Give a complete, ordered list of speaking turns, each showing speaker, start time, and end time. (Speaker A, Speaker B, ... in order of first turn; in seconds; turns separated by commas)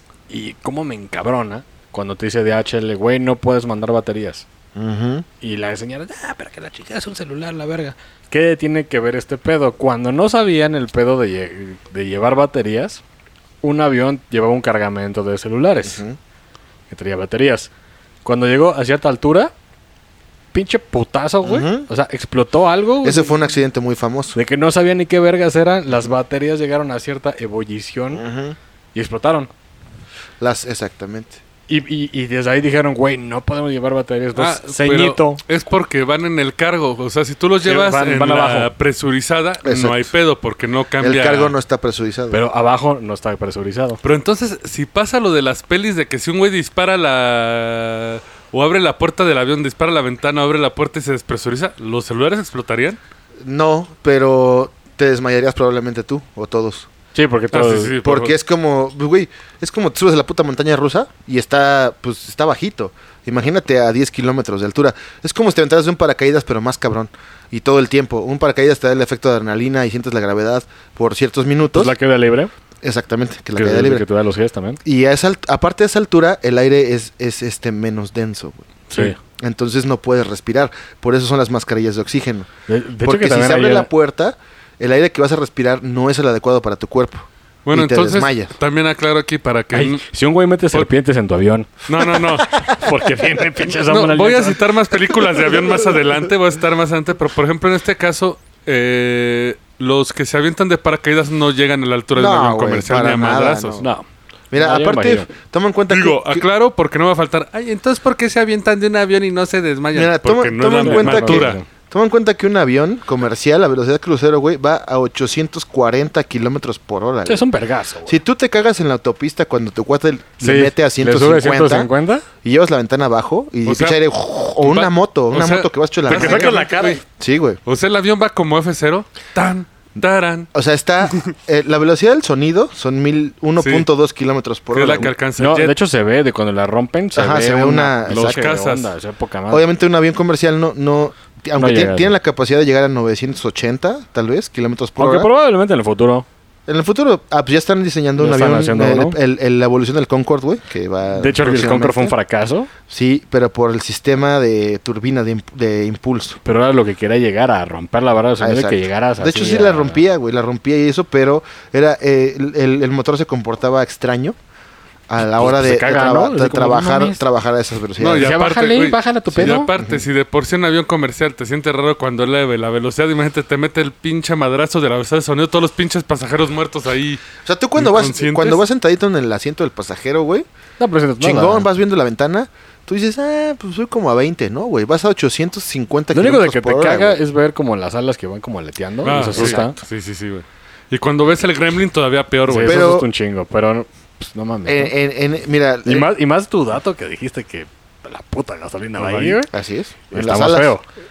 Speaker A: 0.3-4.5, Speaker B: 4.7-5.2, Speaker A: 5.4-13.0, Speaker A: 13.6-16.0, Speaker B: 15.8-16.2, Speaker A: 16.9-17.7, Speaker A: 18.2-19.5, Speaker A: 20.5-23.4, Speaker B: 21.4-21.9, Speaker B: 23.0-24.4, Speaker A: 24.3-28.2, Speaker B: 28.1-28.6, Speaker A: 28.9-29.5, Speaker B: 30.4-31.4, Speaker A: 31.7-35.4, Speaker C: 34.3-41.5, Speaker A: 37.6-38.7, Speaker B: 39.6-40.1, Speaker B: 41.0-42.4, Speaker A: 42.3-44.0, Speaker C: 44.0-53.0, Speaker B: 53.4-56.9, Speaker A: 57.1-58.0, Speaker C: 57.5-58.3, Speaker B: 58.0-72.0, Speaker A: 71.7-72.5, Speaker B: 72.8-74.0, Speaker A: 73.5-74.8, Speaker B: 74.8-82.5, Speaker A: 78.9-79.2, Speaker A: 82.7-83.9, Speaker B: 83.0-88.5, Speaker C: 87.7-90.0, Speaker A: 89.7-91.8, Speaker C: 91.9-92.5, Speaker B: 92.4-92.9, Speaker A: 92.6-94.6, Speaker C: 93.7-103.8, Speaker B: 102.1-103.9, Speaker A: 103.8-105.3, Speaker B: 104.5-106.4, Speaker C: 105.9-111.6, Speaker B: 109.9-117.4, Speaker A: 110.8-111.6, Speaker A: 117.2-118.2, Speaker B: 118.0-121.9, Speaker A: 120.4-122.2, Speaker B: 122.4-126.6, Speaker C: 123.6-124.0, Speaker C: 124.6-127.0, Speaker A: 126.1-127.0, Speaker B: 127.1-127.6, Speaker C: 127.7-130.5, Speaker B: 130.5-135.1, Speaker C: 133.6-133.9, Speaker C: 134.7-135.8, Speaker A: 135.4-139.7, Speaker B: 137.1-138.5, Speaker C: 138.1-138.9, Speaker B: 139.5-145.3, Speaker A: 141.6-142.1, Speaker A: 145.0-146.2, Speaker B: 146.7-152.1, Speaker A: 148.2-149.2, Speaker A: 151.1-152.7, Speaker B: 152.9-156.4, Speaker A: 156.4-160.0, Speaker B: 158.4-164.4, Speaker B: 165.1-168.3, Speaker A: 165.3-167.2, Speaker C: 168.0-178.6, Speaker A: 168.2-169.7, Speaker B: 169.3-170.0, Speaker B: 177.4-180.4, Speaker A: 180.8-181.7, Speaker B: 181.2-187.2, Speaker A: 186.1-189.8, Speaker C: 189.0-192.9, Speaker B: 189.2-189.7, Speaker A: 192.5-194.9, Speaker B: 192.6-193.1, Speaker B: 194.7-196.1, Speaker A: 195.8-199.5, Speaker B: 199.0-200.7, Speaker A: 200.1-200.8